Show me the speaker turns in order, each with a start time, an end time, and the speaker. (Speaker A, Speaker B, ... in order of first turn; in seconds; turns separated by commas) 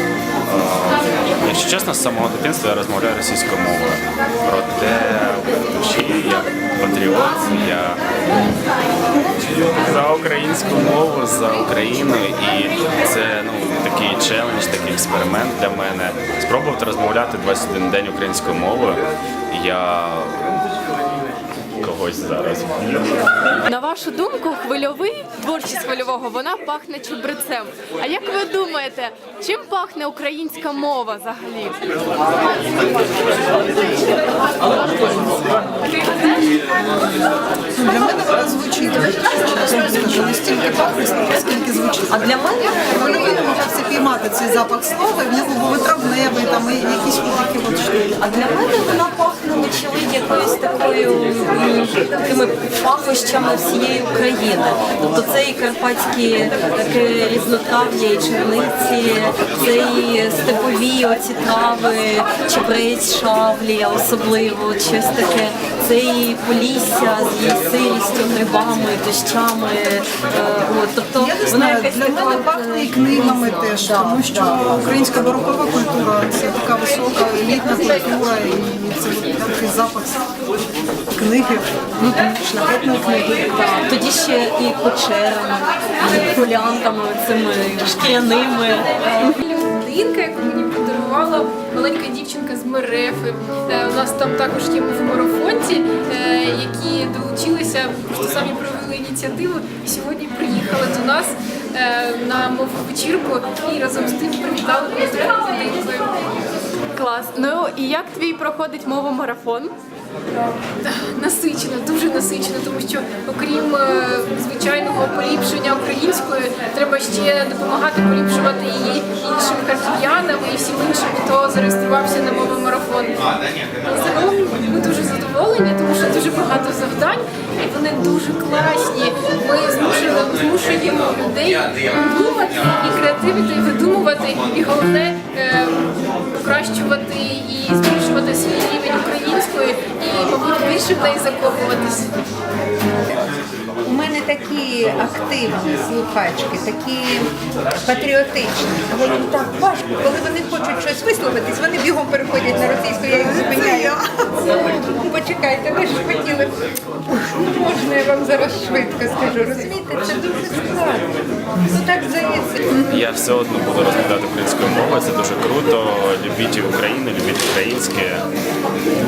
Speaker A: 0.4-8.0, Speaker A: 9.4-20.6, Speaker A: 21.8-23.3, Speaker B: 23.7-35.5, Speaker B: 36.0-36.4, Speaker C: 37.7-42.3, Speaker D: 42.1-42.9, Speaker C: 42.8-48.1, Speaker D: 48.2-74.6, Speaker C: 71.2-80.3, Speaker C: 81.1-83.9, Speaker D: 83.8-89.4, Speaker E: 89.3-106.3, Speaker B: 106.9-109.7, Speaker E: 110.8-123.3, Speaker E: 123.8-142.1, Speaker F: 143.8-156.5, Speaker C: 153.2-154.0, Speaker F: 157.1-162.6, Speaker A: 162.8-168.2